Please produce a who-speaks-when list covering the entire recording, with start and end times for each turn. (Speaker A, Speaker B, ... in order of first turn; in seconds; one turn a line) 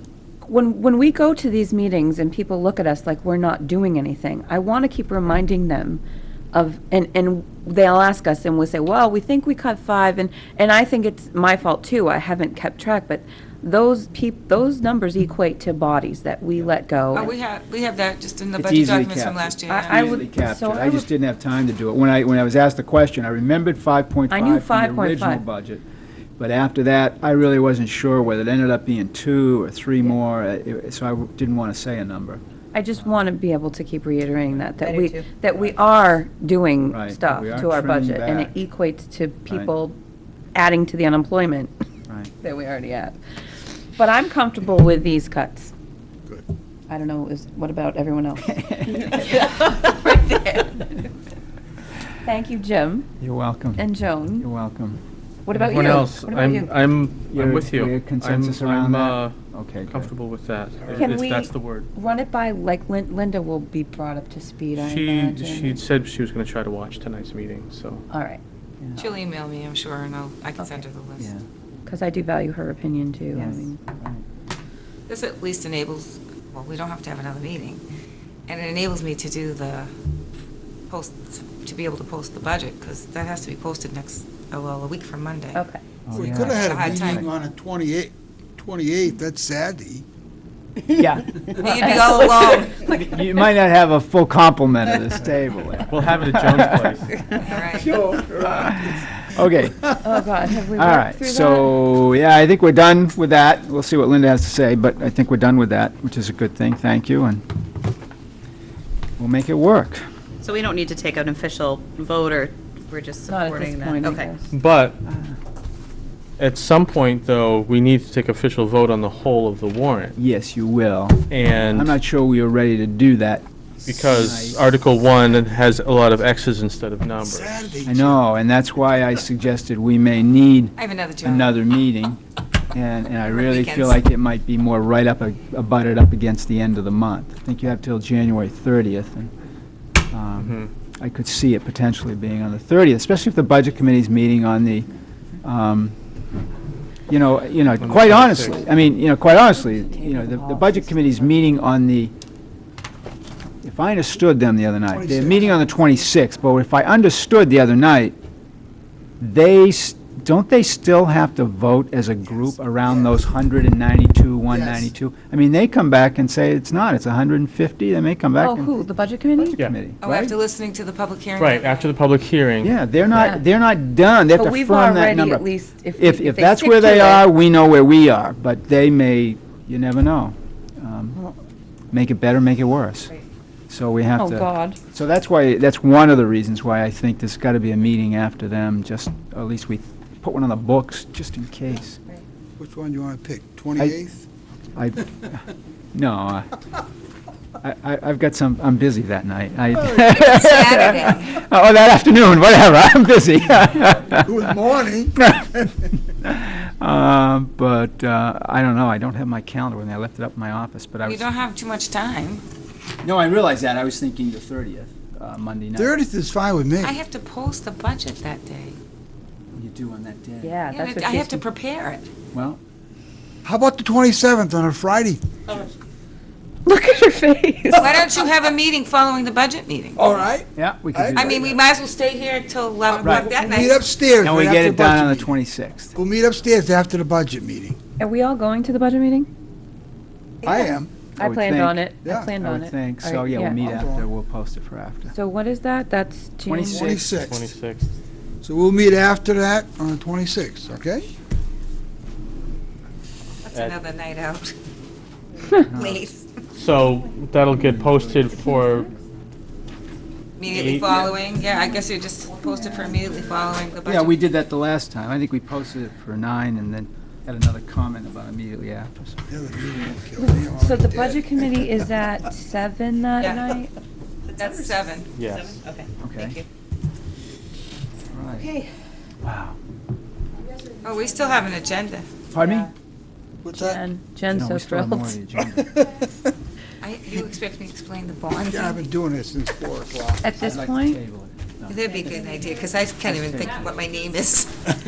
Speaker A: 0.4-6.0
Speaker A: 6.5-17.3
Speaker B: 17.1-20.2
Speaker C: 18.6-25.8
Speaker A: 19.7-21.1
Speaker A: 24.3-25.4
Speaker C: 26.4-32.4
Speaker A: 32.7-40.0
Speaker D: 34.8-35.3
Speaker C: 36.9-38.5
Speaker A: 40.5-41.7
Speaker A: 42.4-43.2
Speaker A: 44.0-45.7
Speaker A: 46.9-51.1
Speaker C: 48.4-49.6
Speaker A: 52.2-53.1
Speaker C: 53.2-53.9
Speaker A: 53.8-54.5
Speaker C: 54.4-55.0
Speaker A: 55.5-56.7
Speaker E: 55.5-59.3
Speaker C: 57.3-60.1
Speaker E: 59.9-61.9
Speaker A: 60.9-65.8
Speaker E: 64.8-68.0
Speaker A: 68.1-68.4
Speaker C: 68.8-69.1
Speaker B: 69.0-71.3
Speaker A: 70.6-70.8
Speaker C: 71.2-71.4
Speaker A: 71.8-73.8
Speaker C: 73.3-74.2
Speaker B: 75.1-77.8
Speaker B: 78.5-79.9
Speaker B: 80.9-85.6
Speaker A: 85.5-85.8
Speaker C: 86.1-87.2
Speaker F: 86.1-90.0
Speaker B: 86.5-87.2
Speaker C: 90.9-97.0
Speaker B: 91.5-92.9
Speaker A: 91.8-92.3
Speaker E: 95.9-97.2
Speaker B: 97.3-98.0
Speaker F: 97.6-98.9
Speaker C: 98.1-99.9
Speaker A: 100.0-101.8
Speaker C: 100.7-107.4
Speaker C: 109.2-110.0
Speaker D: 110.4-114.3
Speaker A: 113.3-114.5
Speaker E: 114.4-115.0
Speaker C: 115.0-115.3
Speaker E: 116.4-120.2
Speaker C: 120.2-123.4
Speaker E: 121.3-121.9
Speaker E: 123.9-127.8
Speaker C: 124.1-124.6
Speaker F: 127.2-128.2
Speaker C: 127.8-132.2
Speaker B: 130.8-131.5
Speaker C: 132.7-139.3
Speaker B: 133.3-134.0
Speaker C: 140.1-144.9
Speaker E: 140.4-140.7
Speaker C: 145.4-145.9
Speaker C: 147.1-152.1
Speaker E: 147.8-148.7
Speaker A: 149.8-151.3
Speaker C: 153.6-158.2
Speaker F: 154.9-155.7
Speaker C: 159.2-168.9
Speaker F: 162.8-163.2
Speaker F: 164.5-164.9
Speaker A: 168.4-169.7
Speaker C: 169.4-170.4
Speaker B: 170.0-171.9
Speaker E: 171.4-172.8
Speaker C: 172.6-181.3
Speaker A: 173.1-173.4
Speaker A: 174.3-177.3
Speaker C: 181.9-183.1
Speaker C: 183.7-192.0
Speaker A: 184.2-184.8
Speaker F: 192.6-194.2
Speaker C: 194.8-195.4
Speaker C: 195.9-196.5
Speaker C: 197.6-204.4
Speaker B: 200.0-201.4
Speaker F: 204.1-205.7
Speaker C: 205.2-205.6
Speaker C: 206.2-211.3
Speaker B: 211.0-212.4
Speaker C: 213.0-215.9
Speaker F: 215.8-217.0
Speaker B: 216.8-218.8
Speaker C: 219.6-220.6
Speaker A: 220.4-221.4
Speaker B: 220.7-222.1
Speaker C: 222.3-222.6
Speaker F: 223.4-225.6
Speaker A: 226.7-228.0
Speaker B: 227.7-230.2
Speaker F: 229.9-231.4
Speaker C: 230.6-231.6
Speaker B: 231.1-233.8
Speaker F: 232.9-235.4
Speaker C: 233.0-233.3
Speaker C: 234.2-235.9
Speaker F: 235.9-237.8
Speaker A: 238.0-239.3
Speaker F: 240.4-240.9
Speaker C: 241.2-245.1
Speaker A: 241.2-243.6
Speaker F: 242.0-242.3
Speaker F: 243.6-244.1
Speaker A: 245.1-246.9
Speaker C: 246.5-247.0
Speaker F: 246.7-247.5
Speaker E: 246.9-247.9
Speaker F: 248.4-251.1
Speaker B: 253.4-254.5
Speaker B: 255.5-256.4
Speaker C: 255.7-256.0
Speaker E: 256.6-258.9
Speaker C: 257.5-258.6
Speaker A: 258.4-258.9
Speaker B: 260.4-264.2
Speaker E: 260.5-261.0
Speaker C: 263.8-269.2
Speaker F: 269.3-271.8
Speaker A: 270.2-273.7
Speaker B: 273.2-273.5
Speaker B: 274.4-275.2
Speaker D: 274.4-274.7
Speaker E: 275.1-275.6
Speaker D: 275.3-276.4
Speaker C: 276.0-276.4
Speaker C: 278.1-278.5
Speaker C: 279.2-279.6
Speaker B: 280.8-282.1
Speaker C: 282.3-282.7
Speaker F: 283.4-283.8
Speaker A: 283.5-285.1
Speaker C: 284.3-285.8
Speaker F: 285.5-286.1
Speaker B: 286.8-288.9
Speaker F: 288.4-290.3
Speaker A: 290.2-291.0
Speaker C: 290.4-291.8
Speaker B: 291.7-294.6
Speaker C: 293.0-293.8